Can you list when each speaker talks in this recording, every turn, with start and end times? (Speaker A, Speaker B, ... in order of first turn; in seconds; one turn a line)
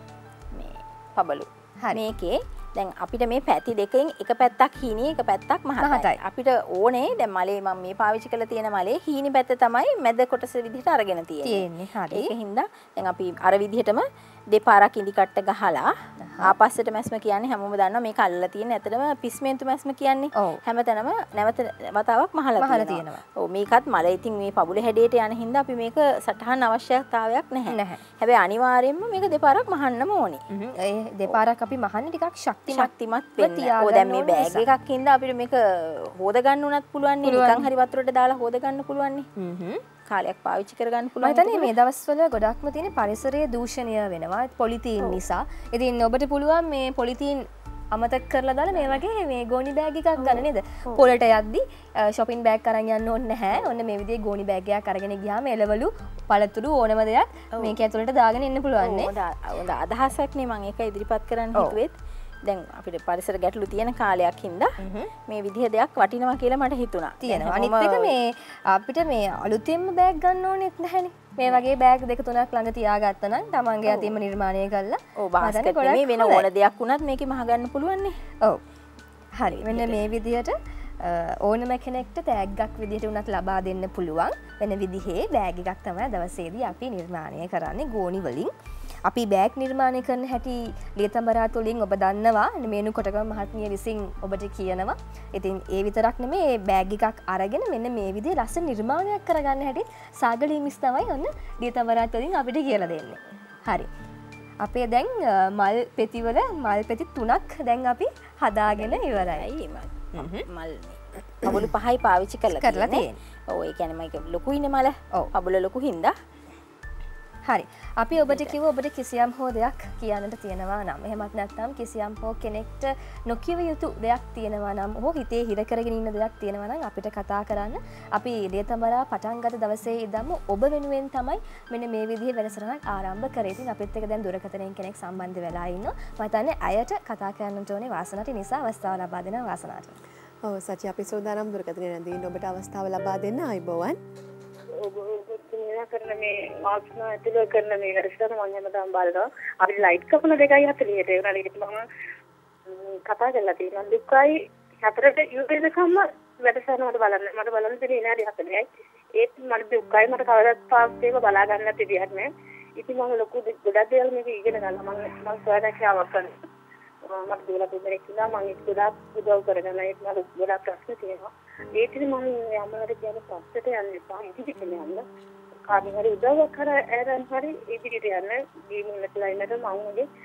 Speaker A: 0.5-15.9
Speaker B: 5.8-6.2
Speaker B: 11.4-12.3
Speaker B: 16.2-16.5
Speaker A: 16.5-30.4
Speaker B: 20.4-20.6
Speaker B: 22.6-23.2
Speaker B: 27.7-28.0
Speaker B: 30.5-34.7
Speaker A: 32.7-39.3
Speaker B: 37.2-37.7
Speaker B: 39.4-39.8
Speaker A: 40.1-41.7
Speaker B: 41.2-59.1
Speaker A: 48.7-49.0
Speaker A: 50.2-51.1
Speaker A: 58.8-61.9
Speaker A: 62.5-64.7
Speaker B: 64.8-65.1
Speaker A: 65.3-68.1
Speaker B: 67.2-76.5
Speaker A: 73.8-74.2
Speaker A: 75.2-78.2
Speaker B: 79.4-88.5
Speaker A: 79.5-80.0
Speaker B: 89.1-103.9
Speaker B: 104.6-109.5
Speaker A: 108.7-116.2
Speaker B: 110.2-110.5
Speaker B: 112.5-113.2
Speaker B: 117.5-140.0
Speaker A: 118.3-118.6
Speaker C: 140.4-144.0
Speaker D: 144.8-151.8
Speaker D: 152.8-158.6
Speaker D: 159.2-166.4
Speaker D: 167.1-175.0
Speaker D: 175.7-180.1